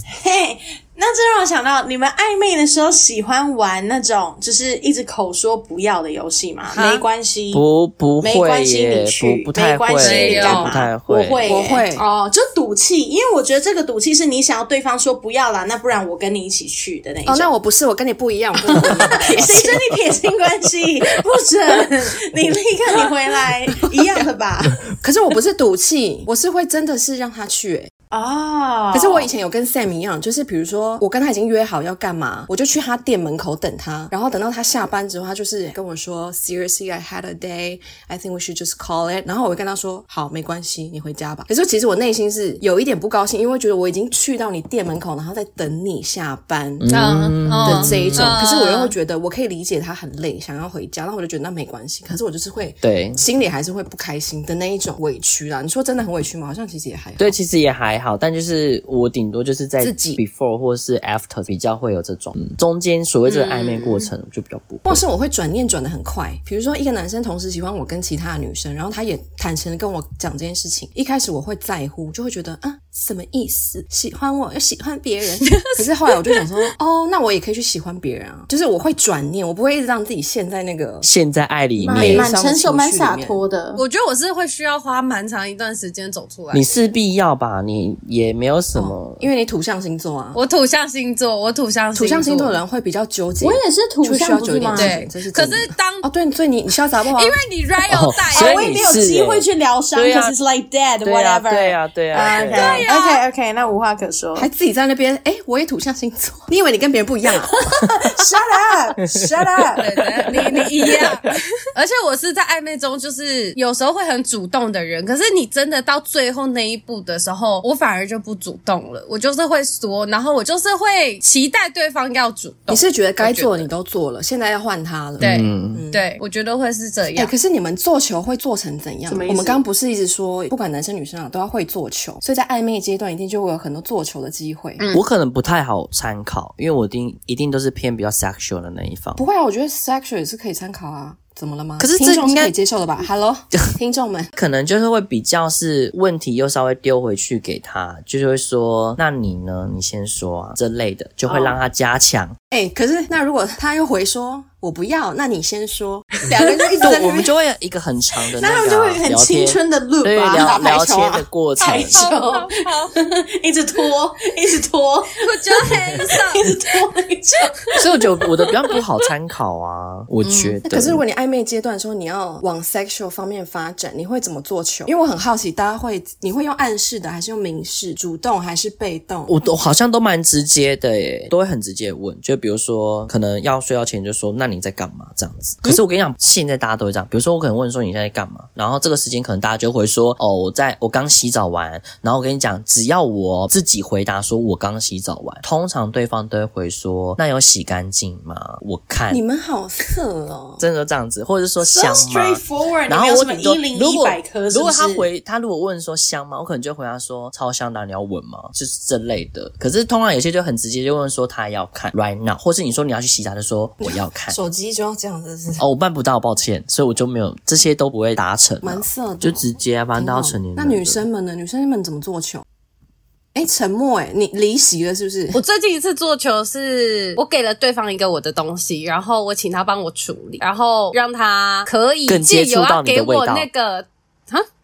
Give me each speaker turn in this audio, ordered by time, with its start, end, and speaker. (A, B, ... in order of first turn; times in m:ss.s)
0:00.2-0:07.6 A
0:06.7-0:07.0 B
0:07.5-0:11.4 C
0:08.2-0:17.5 A
0:10.0-0:10.7 D
0:11.4-0:12.0 B
0:17.2-0:19.6 B
0:18.6-0:24.8 A
0:18.8-0:19.8 C
0:25.0-0:27.9 B
0:28.1-0:29.3 A
0:28.9-0:46.9 B
0:46.8-0:48.3 C
0:46.9-0:48.9 D
0:47.6-0:57.3 B
0:52.8-0:53.2 C
0:57.2-1:05.0 C
0:59.8-1:00.2 B
1:03.3-1:04.1 D
1:04.8-1:21.1 B
1:15.4-1:15.7 D
1:21.0-1:22.3 C
1:21.8-1:23.8 A
1:21.9-1:23.4 B
1:23.7-1:26.7 D
1:26.5-1:29.2 C
1:28.7-1:30.4 B
1:30.3-1:32.6 D
1:31.9-1:37.4 B
1:33.4-1:34.9 A
1:34.7-1:36.0 D
1:37.1-1:38.8 D
1:37.9-1:40.4 C
1:38.3-1:44.5 A
1:41.0-1:42.9 C
1:42.5-1:43.2 D
1:44.4-1:47.6 B
1:47.4-1:50.3 A
1:49.1-1:51.1 C
1:49.8-2:03.7 D
2:02.7-2:06.1 B
2:05.2-2:07.3 D
2:05.2-2:05.8 C
2:07.1-2:14.8 B
2:09.1-2:09.6 A
2:14.8-2:15.0 D
2:14.9-2:19.2 C
2:19.2-2:24.3 B
2:21.8-2:22.5 C
2:24.4-2:32.3 C
2:31.3-2:31.6 A
2:32.5-2:37.3 B
2:36.3-2:37.0 A
2:36.8-2:42.0 C
2:38.4-2:45.7 A
2:40.3-2:40.8 B
2:41.6-2:42.9 D
2:45.2-2:46.4 D
2:46.3-2:48.1 A
2:47.5-2:47.8 D
2:47.8-2:51.0 C
2:50.2-2:50.6 D
2:50.6-2:59.3 B
2:59.3-3:19.2 C
3:19.1-3:20.6 B
3:20.6-3:34.4 C
3:21.6-3:25.0 A
3:33.8-3:35.6 B
3:35.6-3:41.0 C
3:38.6-3:42.4 B
3:43.3-3:45.4 B
3:45.3-3:54.4 D
3:52.1-3:53.5 C